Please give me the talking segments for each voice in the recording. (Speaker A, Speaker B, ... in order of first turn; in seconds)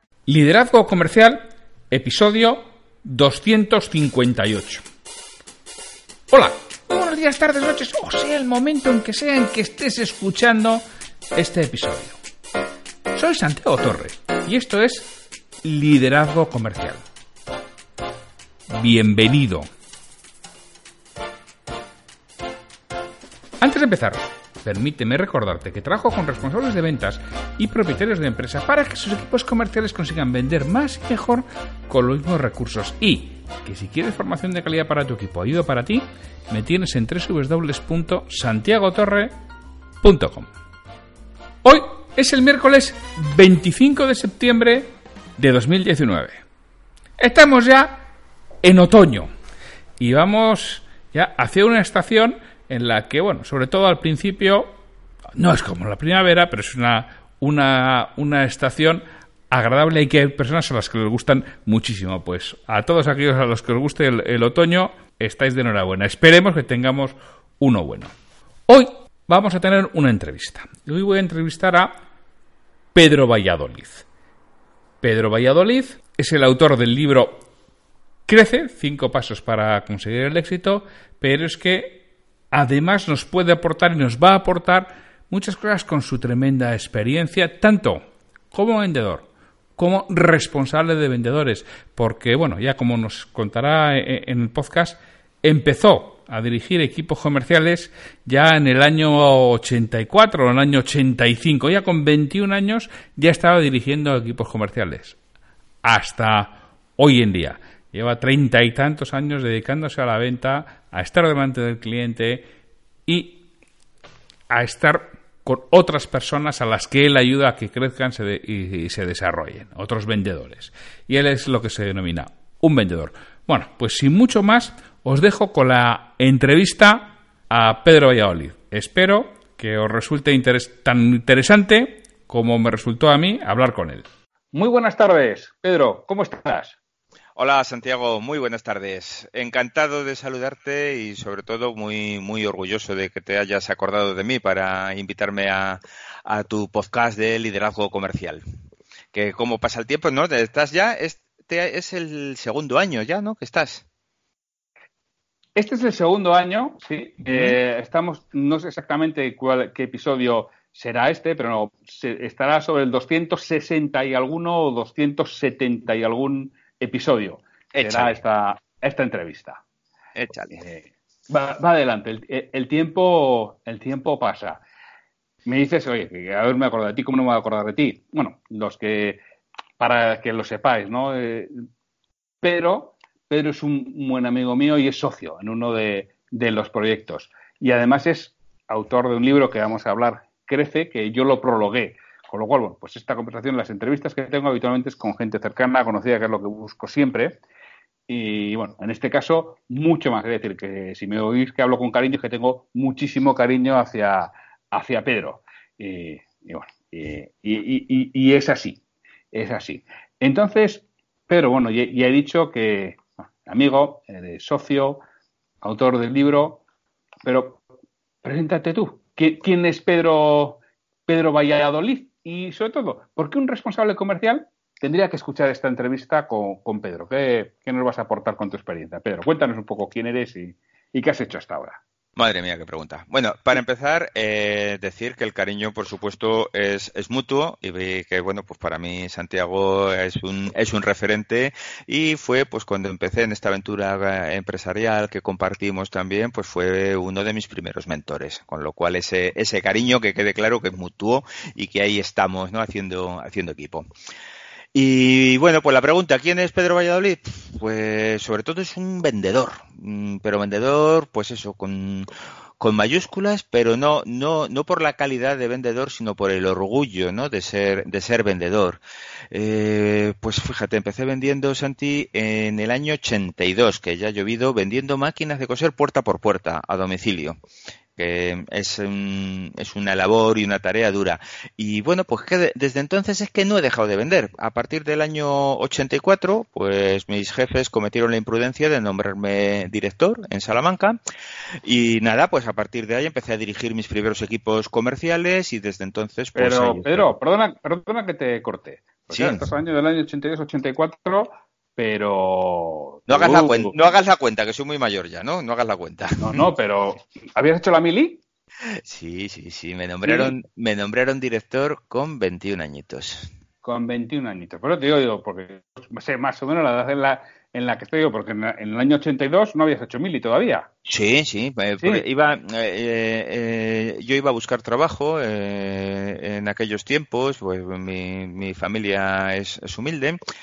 Speaker A: 0.3-4.8, 6.3-10.8, 11.4-12.2, 13.1-17.0, 18.7-19.7, 23.6-39.3, 40.0-40.5, 41.6-46.4, 47.2-48.0, 48.6-49.3, 50.0-54.7, 55.4-68.1, 68.7-72.0, 73.0-74.1, 75.0-77.4, 78.3-82.0, 82.5-89.3, 89.8-105.2, 105.8-112.5, 113.1-113.4, 114.5-136.8, 155.6-169.6, 170.5-174.6, 175.4-179.2, 179.8-181.5, 182.4-197.4, 198.1-208.8, 209.3-215.0, 215.6-216.6, 217.2-217.6, 218.2-231.8, 296.3-303.8, 306.2-308.2, 310.0-310.3, 313.6-320.7, 321.8-322.0
Speaker B: 137.3-148.4, 149.1-153.8, 157.3-157.6, 167.7-168.2, 170.2-170.6, 232.2-253.8, 254.7-262.1, 262.6-268.8, 269.3-277.4, 278.0-291.0, 291.6-297.1, 299.1-299.4, 303.1-306.4, 308.7-313.3, 320.8-330.2